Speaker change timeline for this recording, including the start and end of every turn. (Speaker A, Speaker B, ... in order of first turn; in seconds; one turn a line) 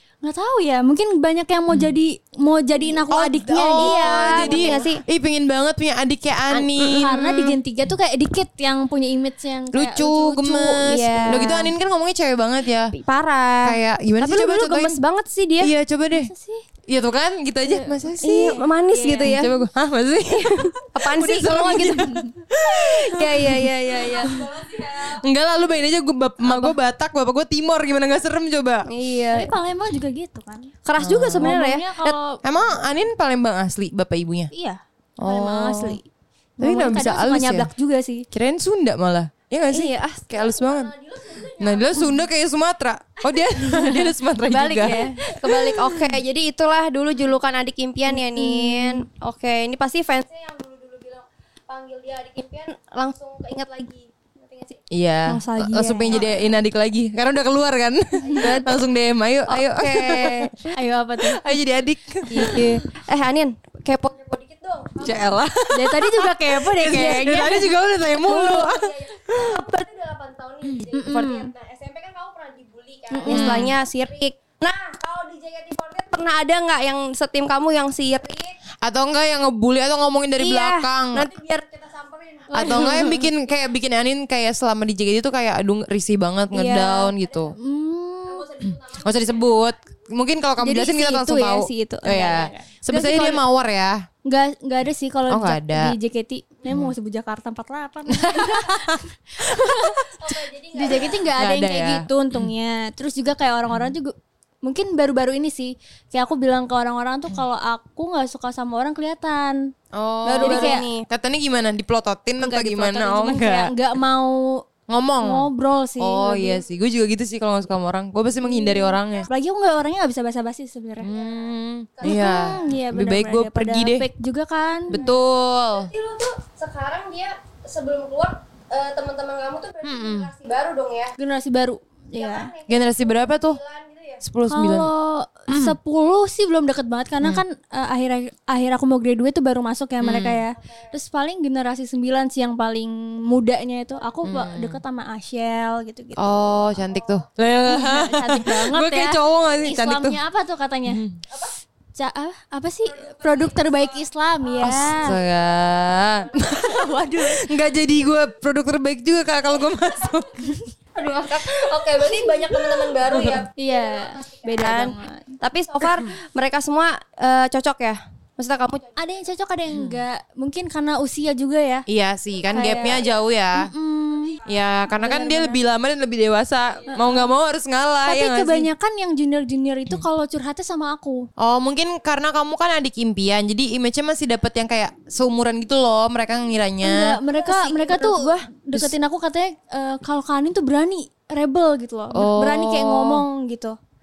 Speaker A: 0.2-4.8
Speaker B: 3.1-7.6
Speaker C: 3.7-5.0
Speaker A: 6.9-10.8
Speaker B: 9.7-12.9
Speaker C: 10.8-11.7
Speaker C: 12.9-15.7
Speaker B: 13.6-15.0
Speaker B: 15.6-16.3
Speaker A: 16.1-16.6
Speaker B: 16.9-18.6
Speaker A: 17.6-19.3
Speaker C: 18.2-19.5
Speaker B: 19.2-28.9
Speaker C: 20.3-22.1
Speaker A: 21.8-22.3
Speaker C: 22.7-24.8
Speaker C: 28.9-29.5
Speaker A: 29.3-30.7
Speaker C: 30.8-32.1
Speaker B: 31.0-31.5
Speaker A: 31.4-32.4
Speaker B: 32.4-34.5
Speaker A: 34.5-36.0
Speaker B: 35.2-36.0
Speaker A: 36.6-38.2
Speaker B: 36.6-37.7
Speaker B: 38.3-40.9
Speaker C: 39.7-42.1
Speaker B: 41.6-45.0
Speaker A: 43.6-44.1
Speaker C: 44.5-54.8
Speaker A: 44.8-46.1
Speaker A: 48.1-49.0
Speaker B: 54.9-60.7
Speaker A: 55.3-56.2
Speaker C: 58.3-58.7
Speaker C: 59.5-60.5
Speaker A: 60.7-61.4
Speaker B: 61.2-62.7
Speaker C: 62.3-65.3
Speaker A: 62.3-62.8
Speaker B: 65.0-69.6
Speaker A: 65.7-67.7
Speaker C: 67.0-67.6
Speaker C: 68.1-78.5
Speaker A: 70.9-71.5
Speaker A: 73.1-73.7
Speaker B: 73.3-73.7
Speaker B: 78.8-81.3
Speaker C: 80.4-83.2
Speaker A: 82.5-83.2
Speaker B: 82.5-87.5
Speaker C: 86.5-87.5
Speaker A: 87.5-88.5
Speaker C: 88.2-89.7
Speaker B: 88.7-94.0
Speaker A: 90.6-93.4
Speaker A: 94.2-100.1
Speaker B: 95.3-95.9
Speaker B: 96.7-96.9
Speaker B: 98.1-100.0
Speaker C: 100.2-101.3
Speaker A: 100.7-109.7
Speaker B: 101.3-102.5
Speaker B: 109.9-113.7
Speaker C: 110.2-111.0
Speaker A: 110.4-110.8
Speaker A: 112.4-114.6
Speaker B: 114.9-115.5
Speaker A: 115.2-116.6
Speaker B: 116.0-119.3
Speaker A: 118.5-121.1
Speaker B: 121.0-124.1
Speaker C: 121.0-122.7
Speaker A: 122.0-125.0
Speaker B: 124.9-125.9
Speaker C: 124.9-131.1
Speaker B: 129.8-130.3
Speaker A: 131.2-132.5
Speaker C: 132.1-134.2
Speaker B: 132.7-133.6
Speaker B: 134.2-134.9
Speaker A: 134.5-146.4
Speaker B: 135.5-135.8
Speaker B: 140.0-140.4
Speaker B: 144.2-144.8
Speaker B: 146.2-150.2
Speaker A: 147.6-151.0
Speaker B: 150.8-151.2
Speaker A: 151.9-155.2
Speaker C: 153.0-153.8
Speaker B: 154.6-160.5
Speaker C: 154.7-155.1
Speaker A: 156.4-157.5
Speaker C: 160.9-169.0
Speaker B: 163.0-163.4
Speaker A: 163.6-165.4
Speaker B: 165.8-166.1
Speaker A: 168.9-171.9
Speaker B: 169.7-170.0
Speaker B: 171.9-173.7
Speaker A: 172.5-173.0
Speaker C: 172.7-173.0
Speaker A: 173.5-175.6
Speaker B: 174.4-178.7
Speaker A: 176.9-177.3
Speaker A: 178.1-181.3
Speaker B: 181.4-187.2
Speaker A: 186.8-193.8
Speaker C: 187.3-188.5
Speaker B: 192.1-193.2